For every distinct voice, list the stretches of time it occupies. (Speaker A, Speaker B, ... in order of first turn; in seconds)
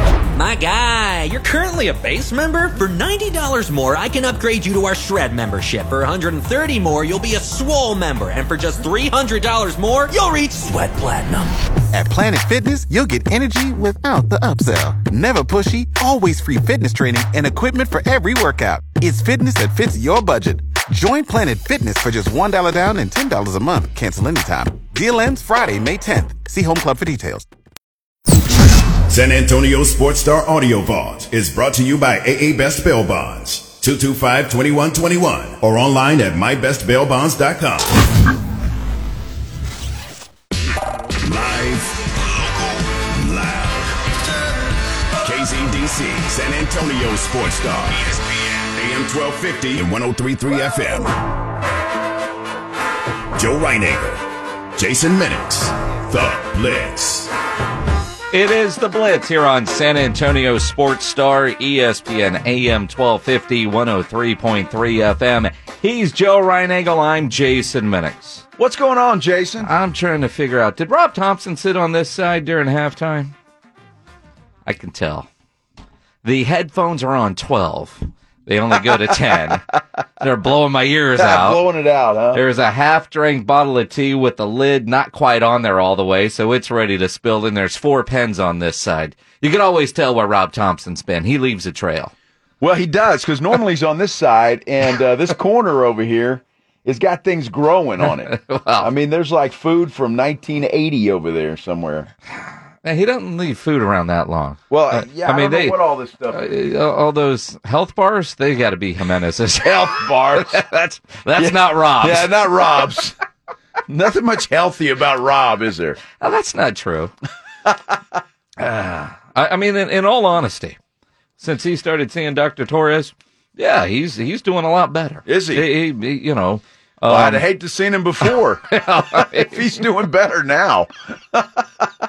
Speaker A: 0.3-11.6
Speaker B: 11.9-27.5
Speaker C: 29.1-38.0, 41.2-44.0, 45.2-51.2, 53.4-54.2, 54.8-57.3
Speaker D: 58.3-68.4, 69.6-73.3, 74.7-75.3, 76.2-79.6, 80.2-81.6, 82.3-92.1, 98.0-98.9, 102.4-105.8, 106.3-112.4, 116.2-117.1, 118.6-120.8, 121.4-127.5, 128.3-129.8
Speaker E: 68.6-69.7, 81.2-82.4, 92.6-102.1, 104.7-106.5, 109.6-110.5, 111.3-113.1, 113.9-116.0, 125.2-125.6, 127.1-131.8